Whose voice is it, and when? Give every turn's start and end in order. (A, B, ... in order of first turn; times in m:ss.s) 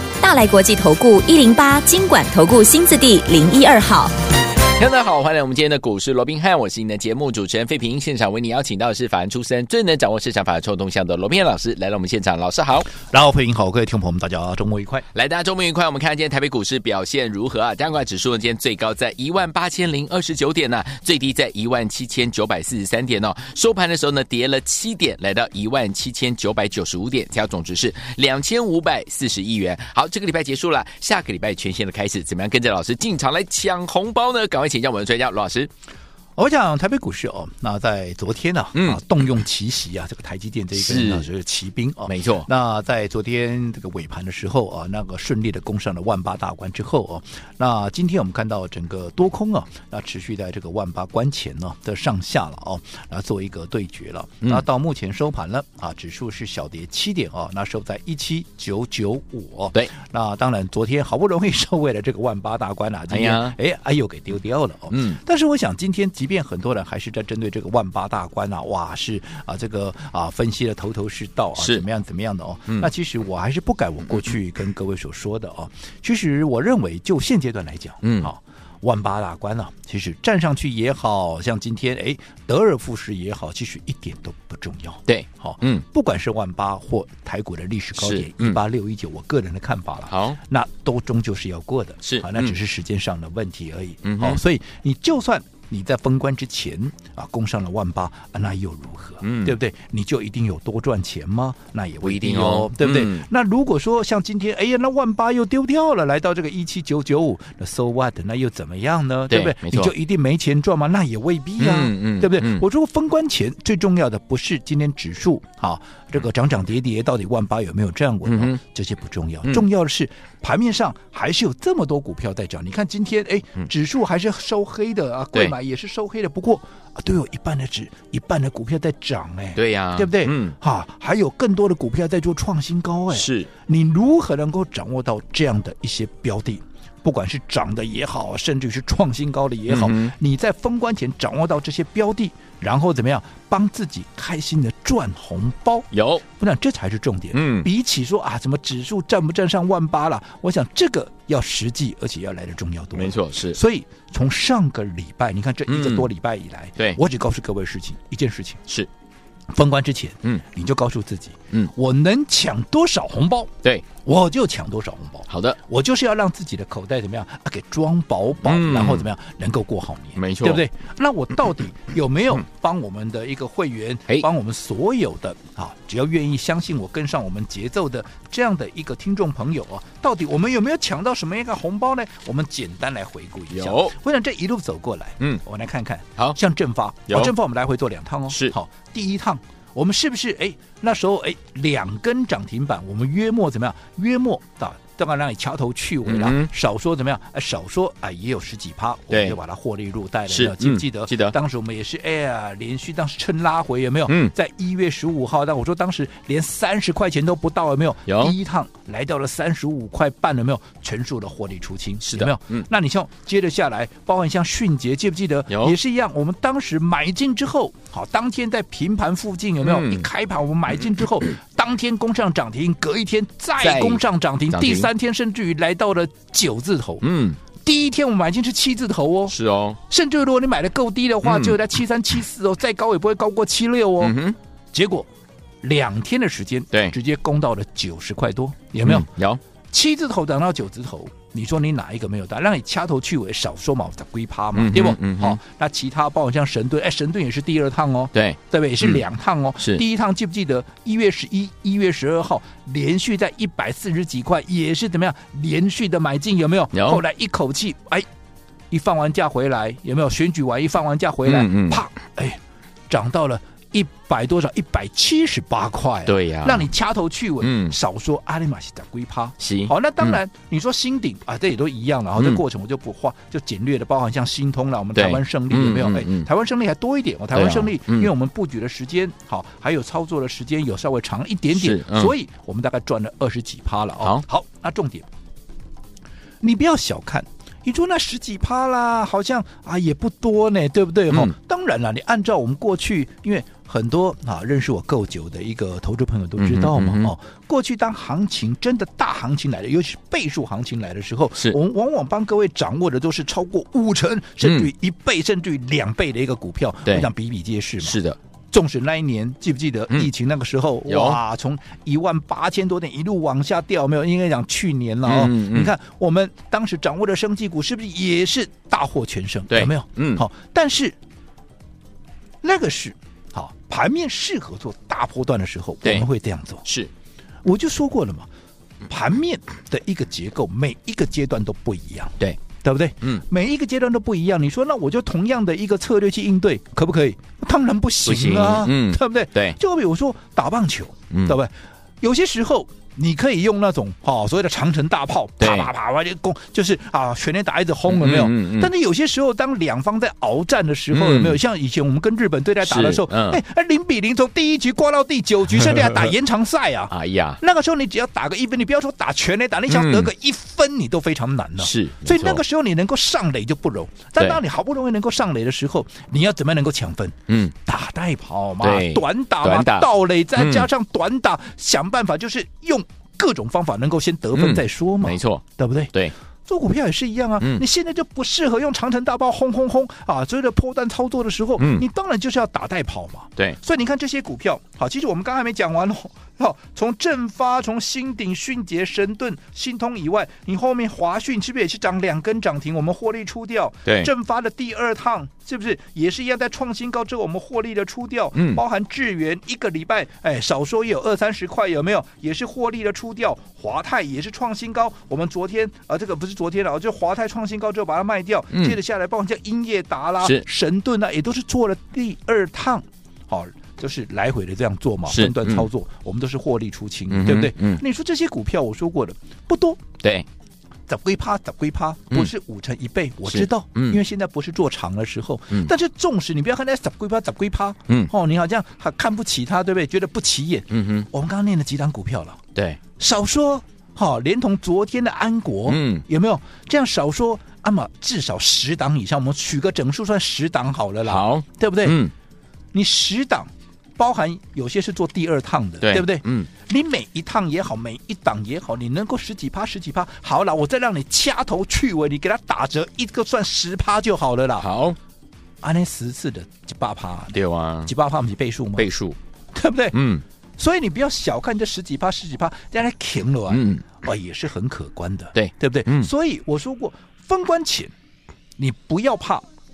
0:00.2-0:04.1 A
0:04.8-0:12.9 B
0:12.9-0:15.0 C
0:15.1-0:35.7 B
0:36.4-2:38.6 C
0:38.7-0:39.0 B
0:40.7-0:41.3 B
0:42.0-0:42.5 B
1:03.1-1:03.6 B
1:04.9-1:05.2 B
1:11.6-1:11.8 B
1:18.0-1:18.3 B
1:25.1-1:25.8 B
1:27.9-1:28.6 B
1:30.1-1:30.4 B
1:32.0-1:32.6 B
1:34.0-1:34.4 B
1:39.2-1:39.6 B
1:42.0-1:43.2 B
1:49.3-1:49.9 B
1:51.6-1:52.6 B
1:58.2-1:58.6 B
2:09.6-2:10.6 B
2:13.1-2:13.5 B
2:19.7-2:20.1 B
2:25.9-2:26.2 B
2:27.3-2:27.7 B
2:32.9-2:33.6 B
2:35.7-2:36.1 B
2:39.5-3:47.0 C
2:45.3-2:45.6 B
2:48.4-2:49.1 B
2:50.2-2:50.6 B
3:03.5-3:03.9 B
3:08.3-3:08.6 B
3:16.0-3:16.5 B
3:19.1-3:19.4 B
3:20.3-3:21.3 B
3:24.1-3:24.3 B
3:28.1-3:28.3 B
3:32.0-3:32.7 B
3:35.5-3:35.7 B
3:39.6-3:40.1 B
3:43.6-3:44.9 B
3:47.0-3:47.4 B
3:47.6-3:49.4 C
3:49.3-3:49.8 B
3:49.9-3:54.2 C
3:51.2-3:51.6 B
3:54.0-3:54.4 B
3:54.7-3:55.1 C
3:55.6-3:59.1 C
3:58.8-3:59.4 B
3:59.7-4:18.0 C
4:04.5-4:05.4 B
4:08.1-4:09.0 B
4:16.7-4:17.0 B
4:18.7-4:22.4 C
4:21.2-4:21.8 B
4:22.9-4:45.1 C
4:26.0-4:26.7 B
4:27.4-4:27.8 B
4:29.4-4:30.2 B
4:32.2-4:32.4 B
4:34.9-4:36.3 B
4:37.3-4:38.1 B
4:41.5-4:42.1 B
4:46.4-5:08.0 C
4:51.1-4:51.3 B
4:56.4-4:57.1 B
5:04.4-5:04.7 B
5:07.8-5:08.2 B
5:08.5-5:21.0 C
5:10.9-5:11.2 B
5:15.0-5:15.7 B
5:19.5-5:20.2 B
5:22.4-5:26.6 C
5:26.6-5:26.9 B
5:27.4-5:28.3 C
5:28.8-6:15.9 C
5:38.0-5:39.6 B
5:41.1-5:41.4 B
5:45.4-5:45.7 B
5:47.8-5:48.7 B
5:50.9-5:51.4 B
5:52.6-5:53.4 B
5:56.9-5:57.4 B
5:59.7-6:00.1 B
6:01.6-6:02.4 B
6:07.3-6:07.5 B
6:08.6-6:10.7 B
6:14.3-6:16.1 B
6:16.4-6:59.8 C
6:21.6-6:21.8 B
6:33.8-6:34.1 B
6:38.3-6:38.6 B
6:48.5-6:48.8 B
6:55.1-6:55.7 B
6:57.1-6:57.8 B
7:00.0-7:00.3 B
7:00.9-7:12.4 C
7:03.2-7:04.0 B
7:10.7-7:11.1 B
7:12.5-7:12.8 B
7:13.0-7:22.0 C
7:15.6-7:16.0 B
7:21.0-7:22.1 B
7:22.7-7:34.7 C
7:25.8-7:26.5 B
7:34.6-7:35.0 B
7:35.6-7:38.9 C
7:37.3-7:37.9 B
7:38.8-7:39.2 B
7:39.5-7:40.0 C
7:39.9-7:40.2 B
7:40.6-7:47.9 C
7:43.5-7:43.8 B
7:45.3-7:46.1 B
7:48.6-7:49.4 C